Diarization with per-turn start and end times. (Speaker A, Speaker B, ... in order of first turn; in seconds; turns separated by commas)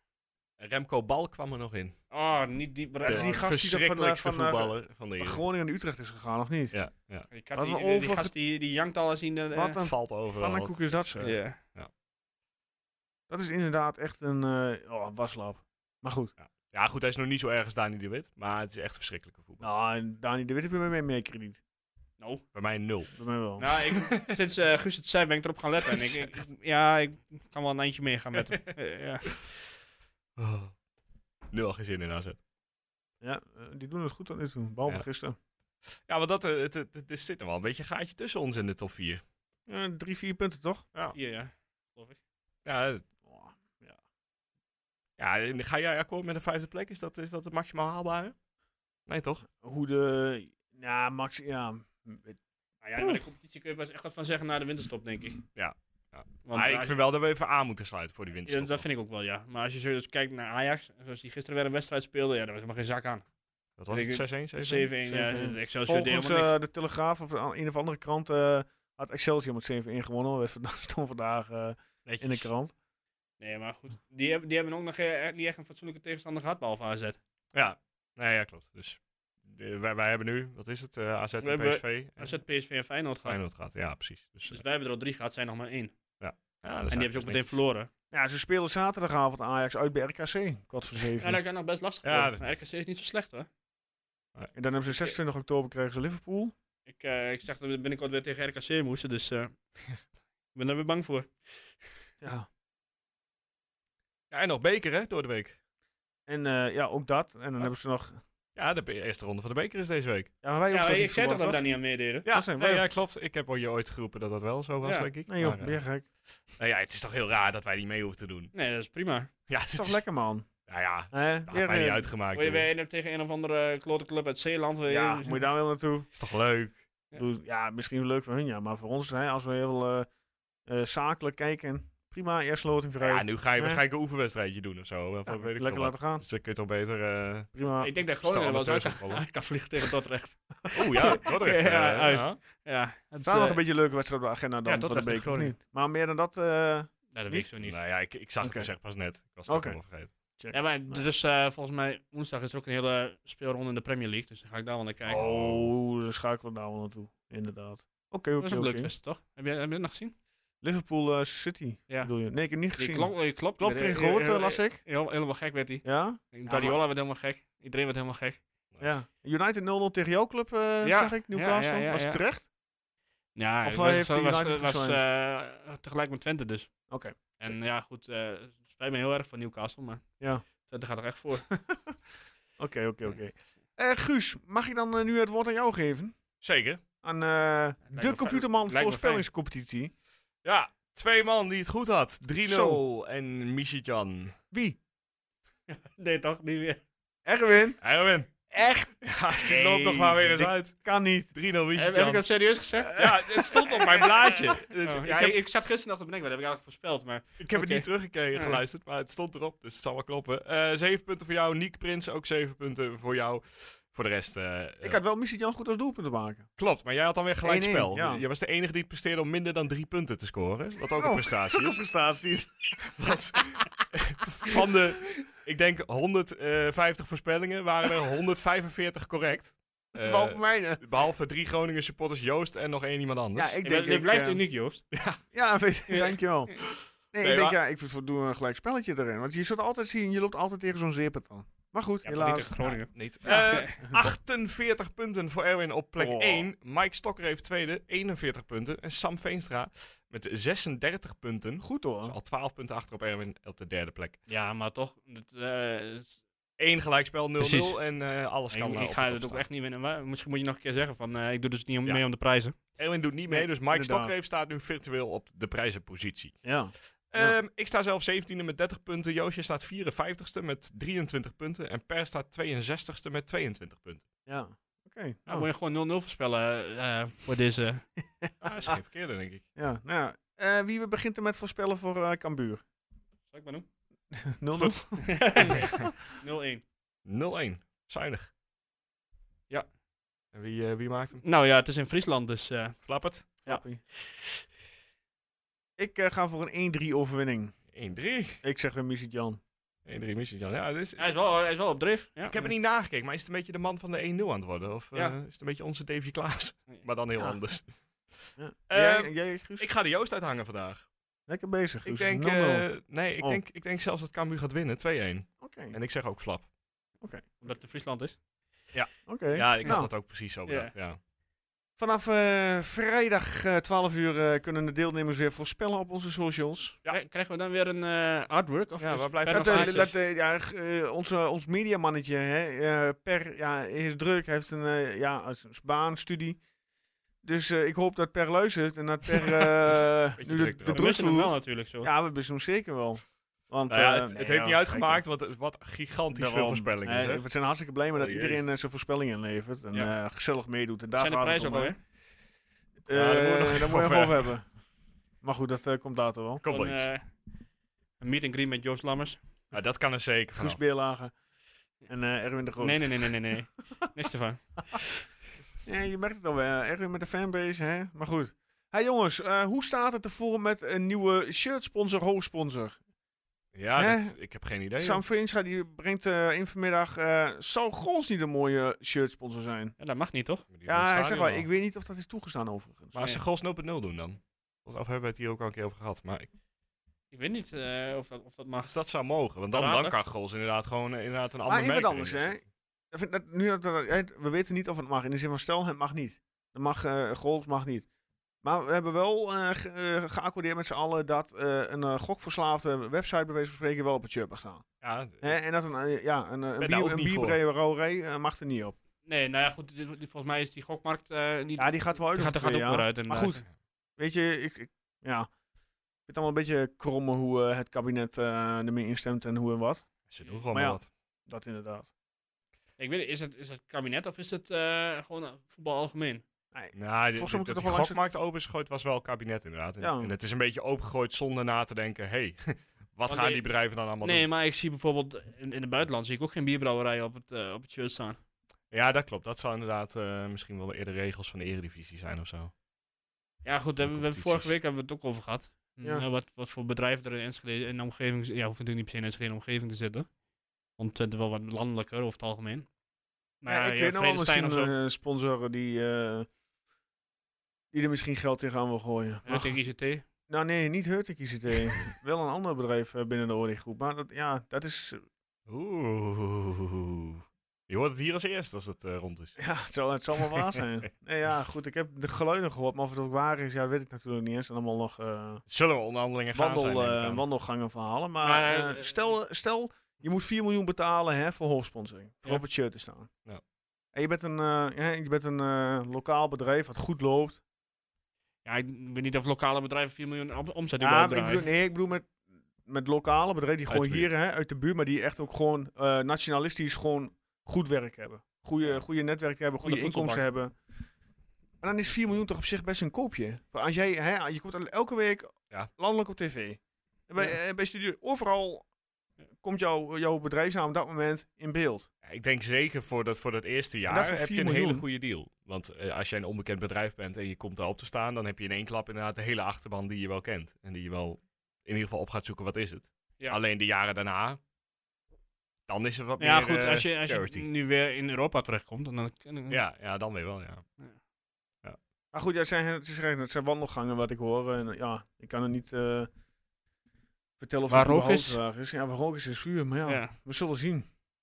Speaker A: 0.6-1.9, Speaker B: 2.1-3.4, Speaker C: 3.0-6.8, Speaker A: 3.0-5.4, Speaker A: 6.7-7.3, Speaker B: 7.3-9.8, Speaker C: 7.5-8.3, Speaker C: 9.5-11.4, Speaker A: 9.8-11.1, Speaker B: 11.2-11.6, Speaker C: 13.3-16.3, Speaker A: 16.4-19.6, Speaker C: 19.6-21.6, Speaker B: 22.2-22.4, Speaker A: 22.5-23.1, Speaker C: 23.1-23.7, Speaker B: 23.6-29.5, Speaker A: 23.9-24.4, Speaker A: 25.8-26.3, Speaker A: 30.4-30.7, Speaker A: 31.5-32.4, Speaker C: 33.2-35.4, Speaker A: 36.1-39.2, Speaker C: 39.7-40.8, Speaker B: 41.1-42.2, Speaker A: 42.6-43.0, Speaker C: 43.2-44.0, Speaker A: 45.2-48.3, Speaker A: 49.0-49.4, Speaker C: 49.6-52.4, Speaker B: 52.8-55.4, Speaker A: 55.5-58.8, Speaker B: 56.4-57.0, Speaker B: 58.5-63.2, Speaker A: 63.8-64.9, Speaker B: 63.9-66.5, Speaker C: 65.0-72.7, Speaker A: 72.0-72.5, Speaker B: 73.4-77.2, Speaker A: 77.5-82.4, Speaker B: 81.4-83.4, Speaker A: 83.2-84.6, Speaker B: 84.5-85.9, Speaker A: 86.2-87.6, Speaker B: 86.9-87.9, Speaker C: 88.1-91.4, Speaker B: 91.2-93.5, Speaker A: 92.0-92.6, Speaker C: 94.5-96.5, Speaker B: 96.9-99.6, Speaker B: 100.5-101.7, Speaker C: 102.2-102.5, Speaker A: 104.3-105.6, Speaker C: 106.3-108.2, Speaker A: 108.5-110.3, Speaker C: 110.4-111.6, Speaker B: 110.7-112.2, Speaker A: 112.2-115.8, Speaker C: 112.3-112.8, Speaker B: 114.8-115.1, Speaker C: 115.3-116.0, Speaker A: 116.5-118.5, Speaker B: 118.5-119.3, Speaker A: 119.5-120.0, Speaker C: 119.7-120.5, Speaker A: 120.7-122.7, Speaker C: 121.1-122.1, Speaker B: 122.3-125.5, Speaker C: 124.9-126.1, Speaker A: 126.1-126.8, Speaker C: 127.1-130.1, Speaker C: 130.7-133.8, Speaker A: 133.0-137.5, Speaker C: 135.3-136.2, Speaker C: 137.5-137.9, Speaker B: 137.8-143.6, Speaker A: 138.2-139.2, Speaker A: 140.7-142.4, Speaker C: 143.2-147.5, Speaker B: 144.6-145.5, Speaker B: 147.1-147.8, Speaker A: 147.6-150.1, Speaker C: 148.4-148.7, Speaker C: 149.5-151.0, Speaker B: 150.5-155.2, Speaker C: 155.1-158.9, Speaker A: 155.1-155.7, Speaker B: 158.4-160.1, Speaker C: 160.6-164.8, Speaker B: 162.8-168.4, Speaker C: 165.8-166.8, Speaker C: 168.8-172.5, Speaker B: 170.8-172.2, Speaker B: 173.3-181.5, Speaker C: 173.6-175.0, Speaker C: 176.9-177.6, Speaker C: 181.5-181.9, Speaker C: 182.6-186.2, Speaker A: 186.4-186.8, Speaker C: 187.0-189.9, Speaker B: 187.9-189.2, Speaker A: 190.4-194.3, Speaker C: 192.4-192.8, Speaker C: 194.5-194.8, Speaker B: 195.7-196.8, Speaker C: 197.2-197.8, Speaker A: 197.8-198.3, Speaker C: 198.5-201.3, Speaker A: 199.0-202.2, Speaker B: 201.7-203.0, Speaker A: 202.9-205.4, Speaker C: 202.9-204.1, Speaker B: 204.8-208.6, Speaker A: 207.4-215.0, Speaker C: 214.8-216.5, Speaker A: 216.6-221.8, Speaker C: 217.4-218.2, Speaker C: 220.9-222.9, Speaker A: 222.8-233.6, Speaker C: 229.9-230.8, Speaker C: 233.3-234.4, Speaker B: 233.6-234.8, Speaker A: 234.9-235.2, Speaker C: 235.3-236.5, Speaker B: 235.9-236.2, Speaker A: 236.6-237.6, Speaker C: 237.1-244.0, Speaker B: 242.0-243.8, Speaker A: 242.9-254.2, Speaker C: 246.0-246.4, Speaker C: 251.6-252.1, Speaker B: 254.3-256.2, Speaker A: 256.6-259.4, Speaker B: 257.4-257.8, Speaker B: 258.5-262.6, Speaker A: 262.7-266.4, Speaker C: 263.3-264.1, Speaker C: 266.4-267.4, Speaker A: 267.1-274.0, Speaker C: 274.2-275.5, Speaker B: 275.3-277.9, Speaker C: 278.2-278.7, Speaker A: 278.4-279.4, Speaker C: 279.5-282.6, Speaker B: 283.3-283.7, Speaker C: 284.1-285.5, Speaker A: 284.6-284.8, Speaker B: 285.0-286.6, Speaker A: 285.4-285.9, Speaker A: 287.0-288.3, Speaker A: 290.3-291.2, Speaker B: 291.2-294.2, Speaker A: 292.8-293.3, Speaker C: 293.4-293.8, Speaker C: 295.8-297.5, Speaker A: 297.7-298.4, Speaker C: 298.4-299.4, Speaker A: 299.8-301.1, Speaker B: 301.0-302.5, Speaker A: 302.3-310.9, Speaker C: 308.4-309.7, Speaker C: 311.3-313.4, Speaker A: 311.8-316.5, Speaker C: 315.4-315.8, Speaker C: 317.0-317.3, Speaker B: 317.4-318.2, Speaker C: 318.7-319.9, Speaker A: 319.3-321.0, Speaker B: 320.4-320.7, Speaker C: 321.8-326.8, Speaker B: 326.9-330.0, Speaker A: 328.8-329.9, Speaker C: 329.3-336.4, Speaker C: 337.2-345.0, Speaker A: 339.2-339.4, Speaker A: 340.1-340.9, Speaker B: 340.7-341.9, Speaker A: 343.7-347.2, Speaker C: 346.1-351.7, Speaker A: 347.9-348.4, Speaker B: 350.9-351.8, Speaker C: 352.9-354.5, Speaker A: 352.9-354.3, Speaker C: 355.2-356.4, Speaker A: 356.4-356.9, Speaker B: 356.4-357.1, Speaker B: 358.0-359.2, Speaker A: 359.5-360.6, Speaker C: 360.4-361.1, Speaker C: 361.9-363.2, Speaker B: 362.6-364.8, Speaker C: 365.6-372.8, Speaker A: 373.5-375.0, Speaker C: 373.8-374.2, Speaker C: 374.8-379.7, Speaker B: 379.8-380.5, Speaker A: 380.5-381.5, Speaker C: 380.6-382.9, Speaker A: 382.9-386.3, Speaker B: 387.1-388.7, Speaker A: 388.6-392.4, Speaker B: 389.5-389.9, Speaker C: 391.4-397.9, Speaker C: 398.4-404.6, Speaker A: 404.8-405.4, Speaker C: 405.2-408.8, Speaker A: 406.6-407.4, Speaker B: 409.0-413.4, Speaker C: 411.6-413.4, Speaker C: 414.0-415.3, Speaker C: 416.1-419.9, Speaker A: 420.1-420.9, Speaker C: 420.5-421.9, Speaker B: 422.8-426.2, Speaker C: 426.5-428.0, Speaker A: 426.7-434.3, Speaker C: 429.8-430.1, Speaker B: 433.1-433.4, Speaker B: 434.0-438.2, Speaker A: 438.7-442.5, Speaker B: 443.4-450.1, Speaker A: 443.8-444.5, Speaker B: 450.8-452.7, Speaker B: 453.4-454.7, Speaker C: 453.4-456.3, Speaker C: 457.7-459.6, Speaker B: 459.2-460.0, Speaker C: 460.3-465.0, Speaker A: 465.5-469.4, Speaker C: 469.4-475.4, Speaker A: 470.4-470.6, Speaker A: 475.5-477.2, Speaker C: 476.3-483.1, Speaker B: 478.2-479.1, Speaker C: 483.9-487.4, Speaker B: 488.4-491.4, Speaker C: 490.8-492.1, Speaker C: 492.6-500.5, Speaker A: 493.7-494.1, Speaker B: 499.6-500.2, Speaker C: 501.6-508.7, Speaker C: 509.4-511.9, Speaker A: 512.0-524.4, Speaker C: 513.9-514.8, Speaker A: 525.7-527.5, Speaker B: 526.2-529.6, Speaker A: 529.5-530.6, Speaker C: 532.1-536.1, Speaker C: 537.4-540.9, Speaker B: 537.7-538.4, Speaker B: 539.9-540.1